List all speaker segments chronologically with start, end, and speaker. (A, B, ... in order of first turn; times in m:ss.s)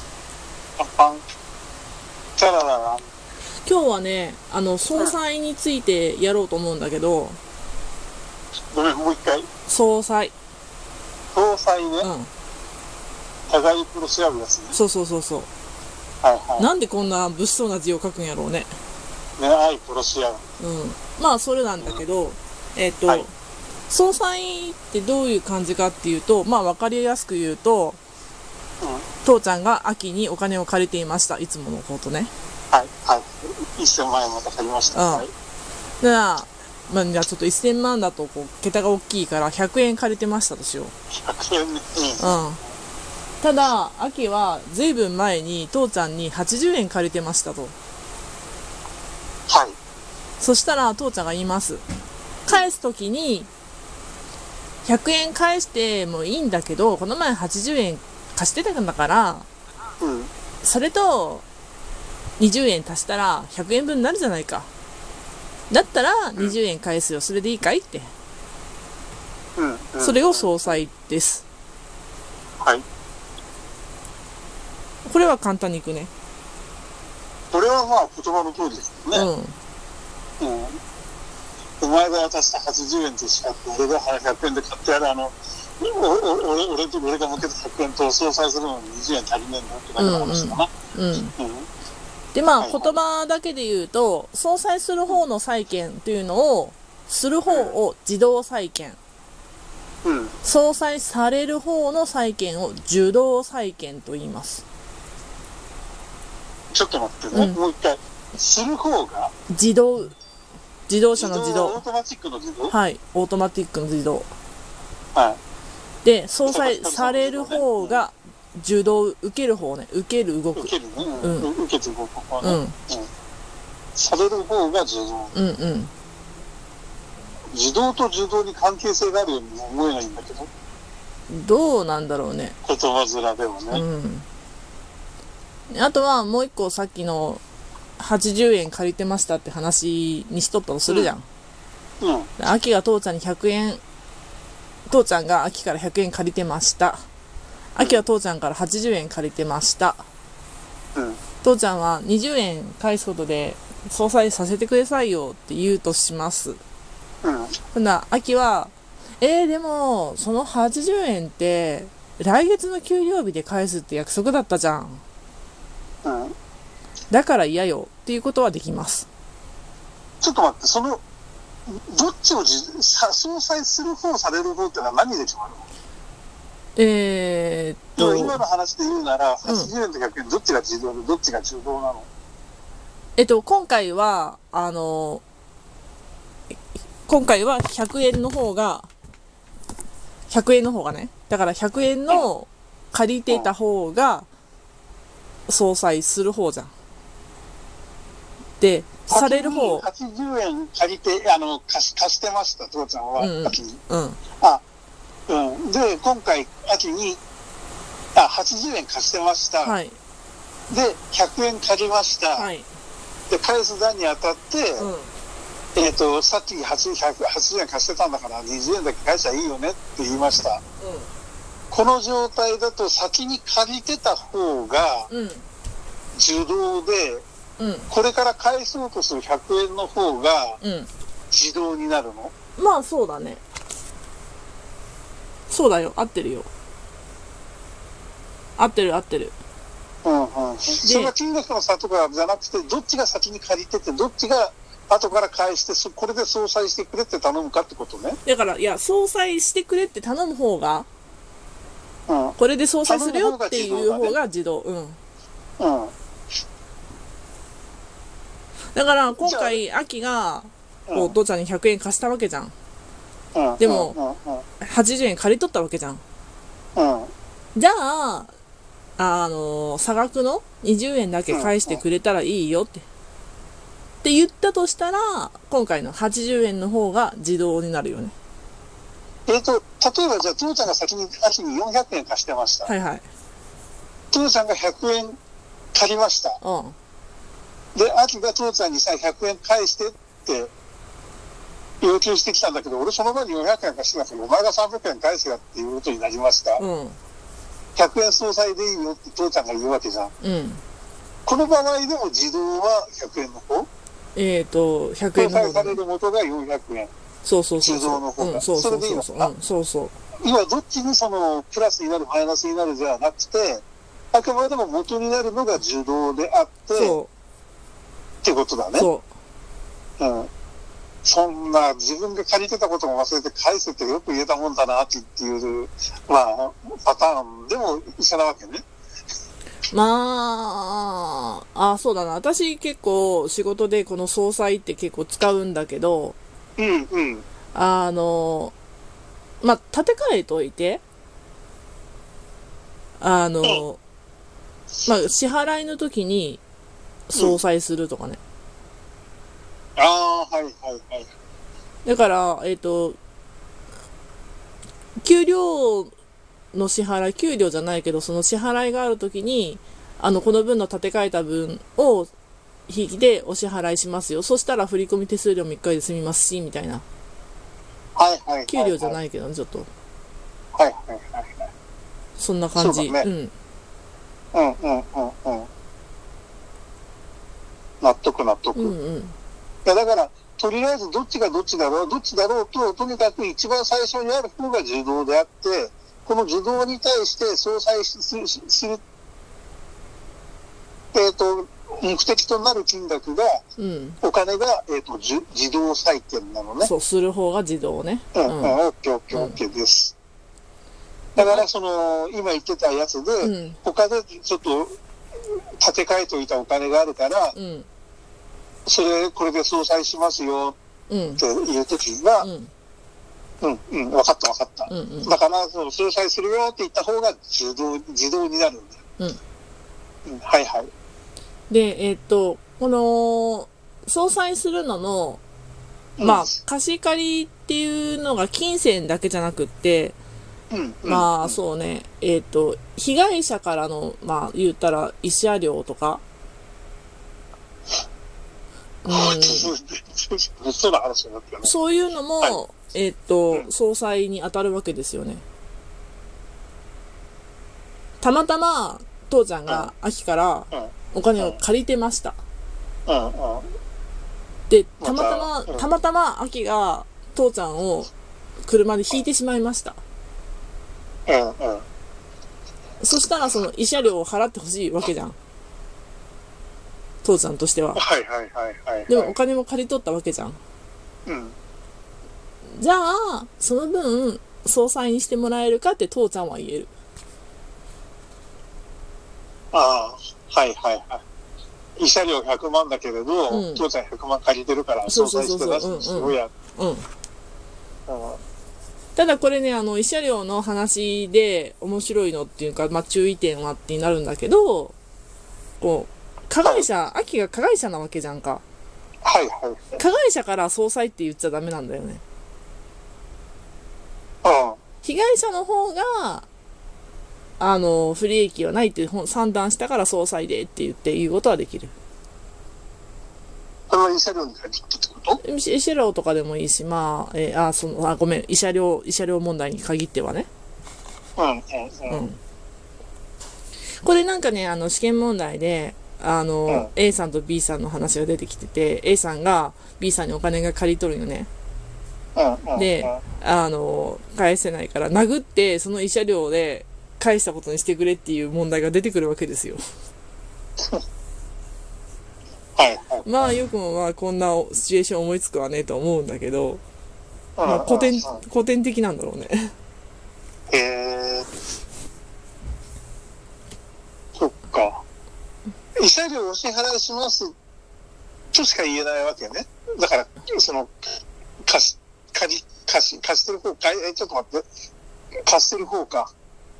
0:00.8-0:01.2 A
0:02.4-0:03.1 A
0:03.7-0:07.4 B
0:08.7-0:09.5 A
0:09.7-0:10.3 B
0:11.3-0:12.1 A
0:12.0-0:12.3 B
0:13.5-0:14.8 A
0:14.7-0:15.5 B
0:16.2-0:16.7 A
0:16.6-0:18.7 B
0:19.4-0:20.4 A
0:20.6-0:23.3 B
0:23.9-0:28.0 B
0:28.8-0:29.1 A
0:29.2-0:32.3 B
0:32.7-0:35.3 A
0:34.9-0:35.3 B
0:36.0-0:40.9 B
0:41.2-0:42.4 A
0:42.2-0:42.6 B
0:43.4-0:47.8 B
0:49.5-0:49.8 A
0:50.4-0:51.8 B
0:52.5-0:53.5 B
0:54.8-0:59.5 B
1:00.0-1:00.3 A
1:00.6-1:01.5 B
1:02.4-1:04.7 B
1:05.7-1:08.1 B
1:09.6-1:10.8 A
1:10.0-1:11.4 B
1:15.0-1:16.1 B
1:17.5-1:19.3 A
1:19.1-1:19.6 B
1:20.4-1:20.8 A
1:21.8-1:30.7 A
1:30.0-1:31.3 B
1:31.4-1:31.7 A
1:32.3-1:39.0 B
1:32.6-1:32.9 A
1:37.5-1:37.8 A
1:40.0-1:40.4 A
1:40.4-1:44.6 B
1:46.7-1:49.3 A
1:47.3-1:47.6 B
1:49.5-1:50.2 B
1:50.9-1:51.8 B
1:51.2-1:52.8 A
1:52.7-1:54.3 B
1:55.1-1:55.4 A
1:56.0-2:01.5 B
1:56.4-1:58.0 A
2:00.6-2:03.1 A
2:02.4-2:02.8 B
2:04.0-2:05.3 A
2:05.3-2:05.9 B
2:07.5-2:10.5 A
2:11.3-2:12.6 B
2:12.6-2:13.8 A
2:13.7-2:14.3 B
2:15.7-2:17.4 B
2:18.0-2:21.3 B
2:22.0-2:22.3 A
2:22.4-2:23.8 B
2:24.9-2:27.0 B
2:27.8-2:30.0 B
2:31.0-2:31.2 A
2:31.4-2:36.6 B
2:37.2-2:37.6 A
2:37.7-2:45.0 B
2:46.0-2:46.4 A
2:47.1-2:49.1 B
2:50.2-2:51.0 A
2:51.7-2:55.7 A
2:56.8-2:58.4 B
2:58.0-3:02.1 A
2:59.4-2:59.7 B
3:03.2-3:05.2 B
3:07.1-3:08.9 B
3:10.3-3:14.3 B
3:13.3-3:13.5 A
3:15.5-3:16.7 B
3:18.6-3:19.8 B
3:19.1-3:23.8 A
3:23.2-3:24.2 B
3:25.3-3:27.2 A
3:28.2-3:29.8 A
3:29.6-3:30.0 B
3:30.7-3:32.5 A
3:32.4-3:32.7 B
3:33.3-3:34.9 A
3:34.8-3:35.1 B
3:35.8-3:40.6 A
3:40.8-3:41.1 B
3:41.7-3:45.1 A
3:45.1-3:45.5 B
3:46.2-3:47.2 A
3:47.6-3:47.9 B
3:47.9-3:50.6 A
3:50.6-3:50.9 B
3:51.3-3:52.3 A
3:52.6-3:53.4 B
3:55.5-3:56.5 B
3:58.6-3:59.4 B
4:00.0-4:08.2 A
4:00.8-4:01.1 B
4:08.2-4:10.9 B
4:12.1-4:14.2 A
4:12.4-4:15.0 B
4:15.6-4:15.9 A
4:18.7-4:22.5 B
4:19.2-4:19.6 A
4:20.9-4:21.2 A
4:23.3-4:24.4 A
4:23.6-4:24.0 B
4:24.6-4:26.0 B
4:26.8-4:27.1 A
4:27.6-4:28.3 B
4:29.0-4:32.9 B
4:31.3-4:31.8 A
4:34.0-4:38.1 B
4:39.3-4:42.7 A
4:42.7-4:43.1 B
4:44.1-4:45.2 A
4:45.7-4:46.4 A
4:46.4-4:46.8 B
4:47.8-4:50.5 A
4:51.8-4:56.6 A
4:56.6-4:57.0 B
4:57.8-5:00.1 A
5:00.2-5:00.6 B
5:01.2-5:03.7 A
5:04.2-5:05.8 B
5:05.2-5:06.9 A
5:07.2-5:10.0 B
5:07.6-5:09.3 A
5:10.2-5:17.0 A
5:16.8-5:17.1 B
5:18.2-5:18.9 A
5:18.8-5:19.0 B
5:20.0-5:20.3 A
5:21.0-5:28.6 A
5:29.7-5:36.2 B
5:36.6-5:37.2 A
5:37.5-5:38.5 B
5:39.4-5:40.8 B
5:43.0-5:43.8 B
5:44.8-5:46.4 B
5:47.1-5:48.2 B
5:49.8-5:51.1 A
5:51.8-5:53.0 B
5:55.0-5:55.9 B
5:56.5-6:02.1 B
6:02.7-6:06.8 B
6:08.0-6:09.0 A
6:08.5-6:09.7 B
6:10.6-6:11.5 A
6:12.2-6:13.3 B
6:12.6-6:13.1 A
6:14.3-6:15.5 A
6:17.8-6:18.8 A
6:18.6-6:19.2 B
6:19.6-6:28.8 A
6:30.9-6:33.4 A
6:33.6-6:34.0 B
6:34.0-6:36.7 A
6:36.6-6:38.6 B
6:38.1-6:40.0 A
6:39.1-6:39.4 B
6:41.2-6:41.4 B
6:41.2-6:47.4 A
6:43.2-6:43.6 B
6:47.3-6:47.7 B
6:48.7-6:50.6 A
6:50.9-6:51.2 B
6:51.2-6:52.3 A
6:52.2-6:52.5 B
6:53.4-6:58.8 A
6:54.7-6:55.1 B
7:00.0-7:00.7 A
7:01.5-7:05.2 B
7:06.0-7:06.3 A
7:06.0-7:10.0 B
7:10.5-7:11.4 A
7:10.9-7:16.0 B
7:18.8-7:19.5 B
7:18.9-7:21.6 A
7:21.4-7:25.2 B
7:28.0-7:32.2 B
7:30.5-7:31.4 A
7:32.9-7:33.5 A
7:34.5-7:37.9 B
7:34.8-7:35.7 A
7:38.4-7:39.8 B
7:41.1-7:41.6 A
7:42.8-7:45.2 B
7:47.0-7:47.8 B
7:47.8-7:49.2 A
7:48.9-7:50.4 B
7:51.1-7:51.4 A
7:52.5-7:56.7 B
7:59.5-8:01.0 A
8:01.8-8:06.3 A
8:03.3-8:03.6 B
8:04.9-8:06.9 B
8:07.9-8:08.2 A
8:09.0-8:14.8 B
8:15.6-8:18.4 B
8:19.0-8:19.8 A
8:19.8-8:22.0 B
8:24.2-8:24.6 A
8:24.8-8:26.3 B
8:27.4-8:31.7 B
8:33.7-8:35.2 A
8:35.2-8:40.3 B
8:41.2-8:42.0 A
8:41.9-8:42.2 B
8:43.8-8:51.3 B
8:52.2-8:53.0 A
8:52.6-8:59.6 B
9:02.6-9:03.3 A
9:03.0-9:06.6 B
9:07.4-9:08.2 A
9:07.4-9:09.5 B
9:10.5-9:11.3 A
9:14.2-9:14.8 A
9:15.8-9:17.4 A
9:18.3-9:20.8 A
9:21.4-9:24.5 A
9:25.3-9:26.1 A